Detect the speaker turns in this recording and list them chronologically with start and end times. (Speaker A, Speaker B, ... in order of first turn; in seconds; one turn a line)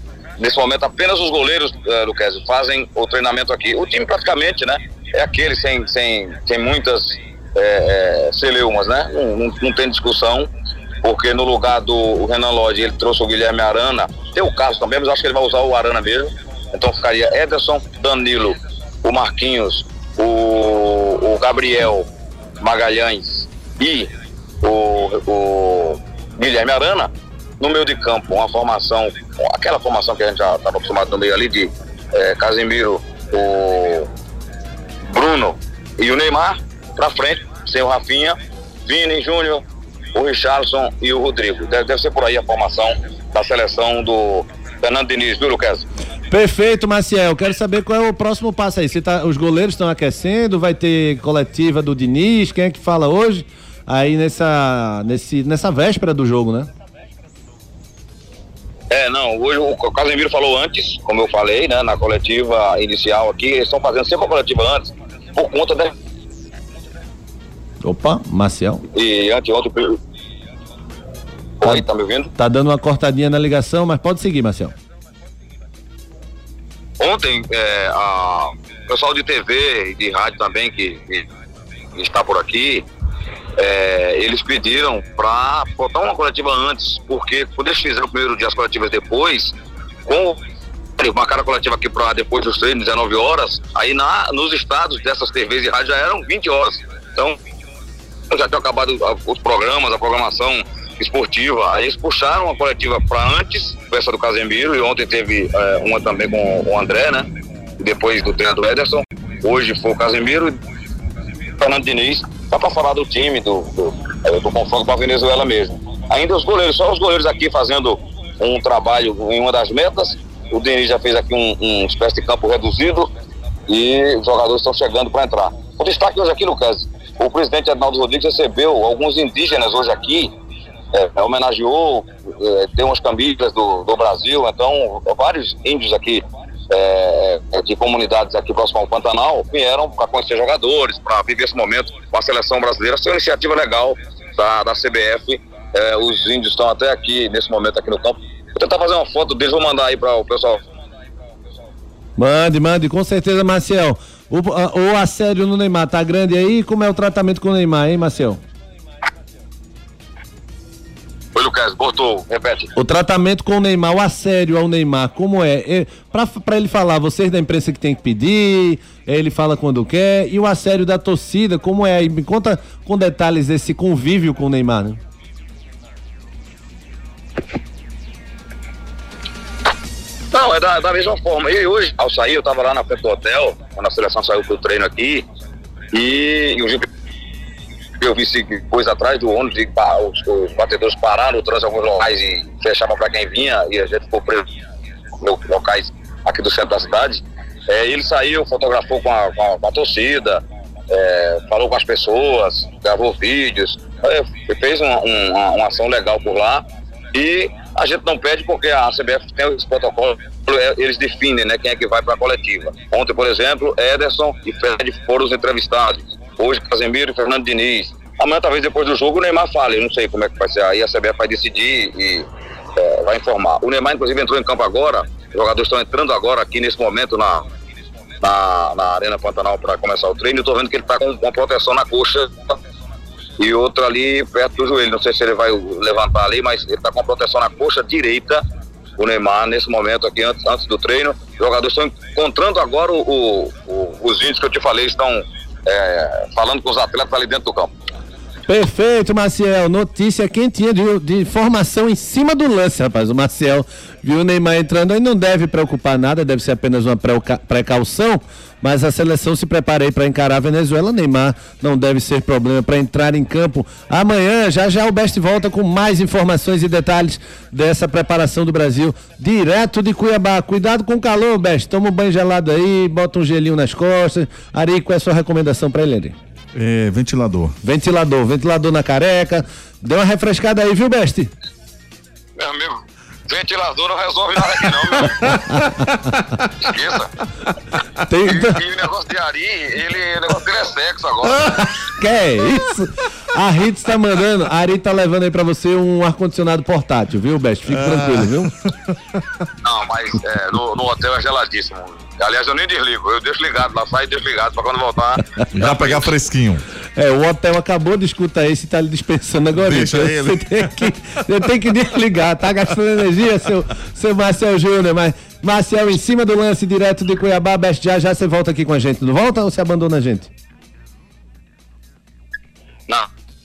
Speaker A: 0.4-10.5
Speaker A: 11.0-22.1
Speaker A: 22.6-24.1
Speaker A: 24.6-34.1
Speaker A: 35.1-39.6
Speaker A: 40.1-45.9
Speaker B: 46.3-56.7
Speaker A: 58.9-65.9
Speaker B: 67.8-68.8
Speaker A: 68.9-70.0
Speaker A: 71.6-72.3
Speaker B: 72.3-74.8
Speaker A: 77.0-81.2
Speaker A: 82.0-82.8
Speaker A: 83.6-89.5
Speaker A: 90.1-90.4
Speaker A: 91.0-97.4
Speaker A: 98.3-107.3
Speaker A: 107.8-110.6
Speaker A: 111.6-123.1
Speaker A: 123.7-130.3
Speaker A: 130.9-150.6
Speaker B: 152.2-158.4
Speaker A: 161.3-162.7
Speaker B: 162.8-175.0
Speaker A: 180.3-185.2
Speaker A: 185.9-186.8
Speaker A: 188.0-194.4
Speaker A: 195.2-227.4
Speaker A: 228.2-232.6
Speaker A: 233.4-238.4
Speaker A: 239.0-247.7
Speaker B: 248.5-276.1
Speaker C: 276.5-277.6
Speaker B: 277.6-281.3
Speaker A: 282.4-285.3
Speaker B: 285.2-286.0
Speaker A: 286.6-287.1
Speaker B: 288.1-288.6
Speaker A: 288.2-291.4
Speaker B: 291.4-298.6
Speaker C: 297.7-298.4
Speaker A: 299.6-306.1
Speaker C: 305.5-306.6
Speaker B: 307.0-320.3
Speaker C: 309.5-310.9